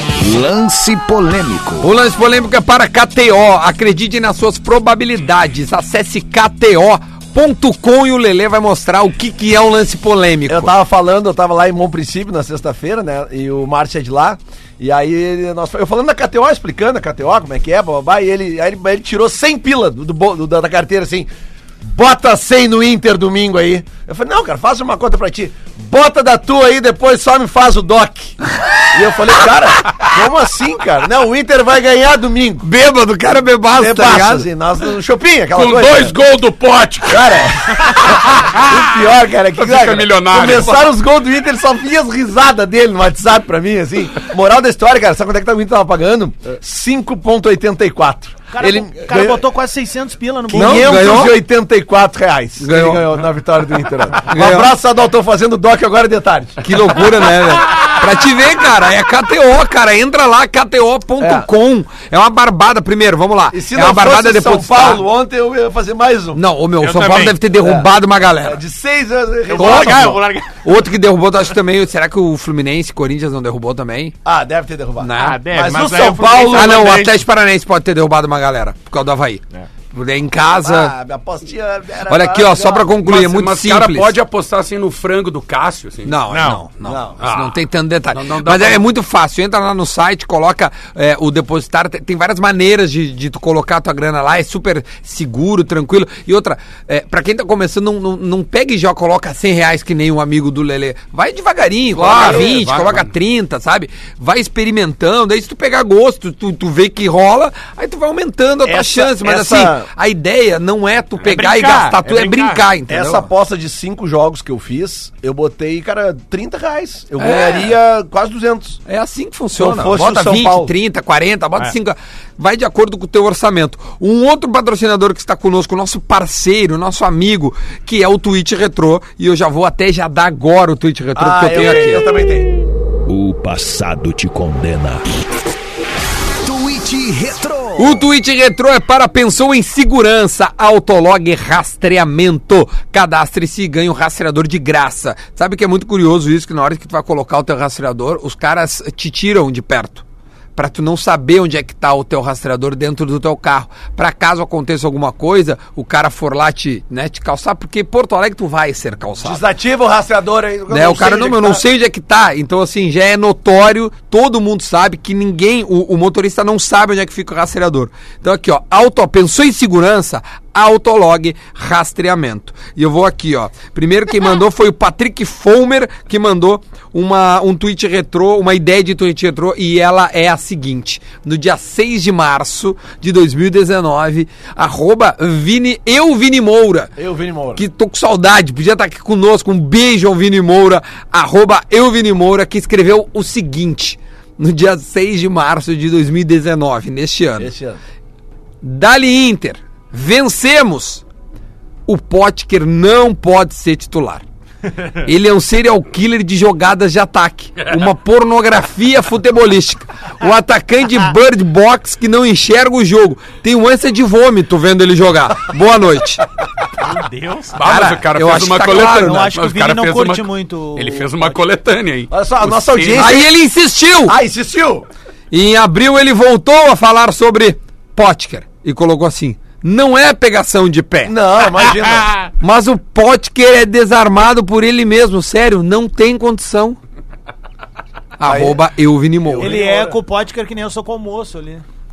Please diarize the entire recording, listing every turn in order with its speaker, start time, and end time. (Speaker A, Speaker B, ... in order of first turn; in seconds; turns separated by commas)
Speaker A: 0.2-1.9, Speaker B: 1.8-10.7, Speaker C: 10.5-21.3, Speaker C: 21.8-32.7, Speaker B: 32.6-34.5, Speaker C: 33.8-36.2, Speaker D: 35.5-37.3, Speaker C: 37.0-49.4, Speaker D: 39.6-40.8, Speaker E: 48.5-51.1, Speaker C: 50.5-56.7, Speaker B: 50.5-51.4, Speaker B: 52.6-53.1, Speaker B: 54.3-54.7, Speaker B: 56.6-65.0, Speaker C: 61.2-61.5, Speaker C: 63.5-66.4, Speaker B: 66.3-68.6, Speaker F: 66.8-67.4, Speaker C: 67.6-67.9, Speaker C: 68.4-70.2, Speaker F: 69.5-70.5, Speaker B: 69.5-74.2, Speaker C: 74.2-76.9, Speaker B: 75.0-75.4, Speaker F: 75.2-77.2, Speaker B: 76.4-80.9, Speaker C: 80.6-83.0, Speaker B: 82.1-84.1, Speaker D: 83.0-86.2, Speaker B: 86.1-113.3, Speaker F: 86.3-86.7, Speaker C: 86.8-87.2, Speaker D: 87.2-87.6, Speaker D: 88.1-88.9, Speaker D: 102.0-103.1, Speaker C: 102.0-102.6, Speaker C: 108.6-109.9, Speaker F: 111.2-112.7, Speaker C: 112.9-118.8, Speaker B: 117.2-117.7, Speaker B: 118.9-132.1, Speaker C: 119.6-120.7, Speaker C: 131.2-132.5, Speaker A: 133.1-135.0, Speaker A: 136.4-138.0, Speaker B: 137.8-150.0, Speaker B: 150.6-159.4, Speaker C: 159.2-161.6, Speaker B: 160.7-186.9, Speaker C: 187.0-187.6, Speaker B: 187.6-197.5, Speaker C: 197.4-197.8, Speaker B: 198.6-201.0, Speaker B: 201.9-204.2, Speaker B: 205.0-216.2, Speaker F: 216.8-217.6, Speaker D: 217.6-223.1, Speaker B: 217.6-219.3, Speaker E: 218.9-221.3, Speaker C: 222.1-223.3, Speaker B: 223.0-224.2, Speaker C: 224.1-224.9, Speaker B: 225.3-231.2, Speaker C: 231.1-232.1, Speaker B: 232.4-236.8, Speaker B: 238.2-239.6, Speaker C: 238.2-238.6, Speaker C: 239.2-240.0, Speaker E: 239.4-241.6